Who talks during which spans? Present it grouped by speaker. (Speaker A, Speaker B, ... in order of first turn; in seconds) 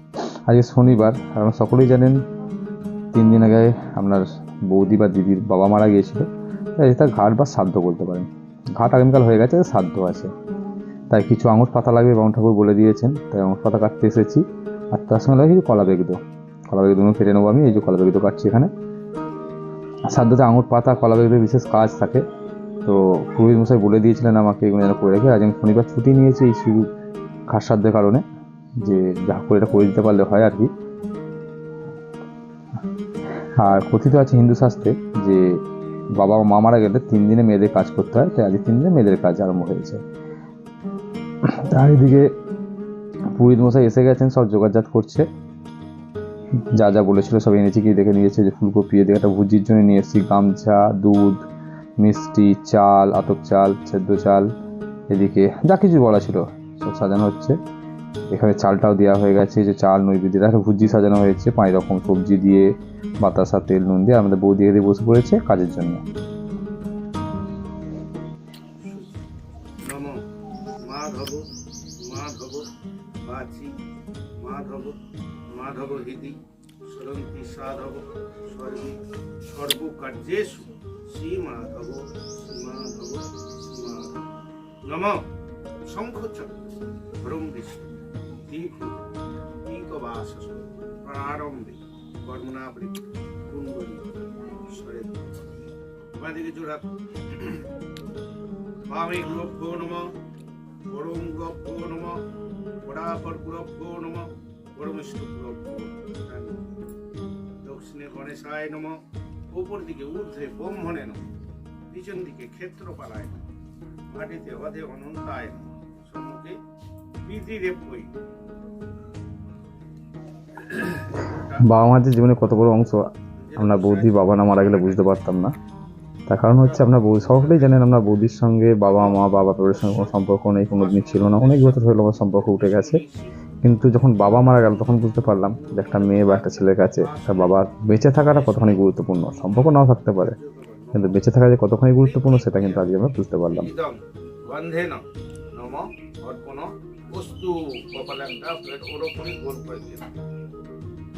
Speaker A: 0.5-2.2, 3.1-10.3, 11.1-16.2, 16.7-18.7, 20.1-22.2, 22.8-26.9, 27.5-28.2, 28.8-30.7, 33.6-35.4, 36.1-40.0, 41.5-42.3, 43.3-45.2, 46.6-51.4, 52.0-54.5, 55.1-57.6, 58.3-62.7, 63.2-66.0, 121.6-123.0, 123.6-125.5, 126.3-133.0, 133.6-140.3, 140.9-143.7
Speaker B: 68.8-69.2, 69.8-70.2, 70.8-71.5, 72.0-72.7, 73.2-73.7, 74.4-75.0, 75.5-84.1, 84.8-85.2, 85.9-86.5, 87.2-87.9, 88.5-89.0, 89.6-94.1, 94.7-95.3, 96.2-97.7, 98.9-100.1, 100.9-102.2, 102.8-106.6, 107.6-109.0, 109.5-111.2, 111.9-113.4, 114.1-116.5, 117.2-118.1, 120.9-122.0, 123.4-125.2, 126.5-127.8, 128.8-130.2, 130.7-133.3, 134.1-137.6, 138.1-138.9, 139.4-141.2, 142.0-142.9, 143.5-145.0, 145.5-150.1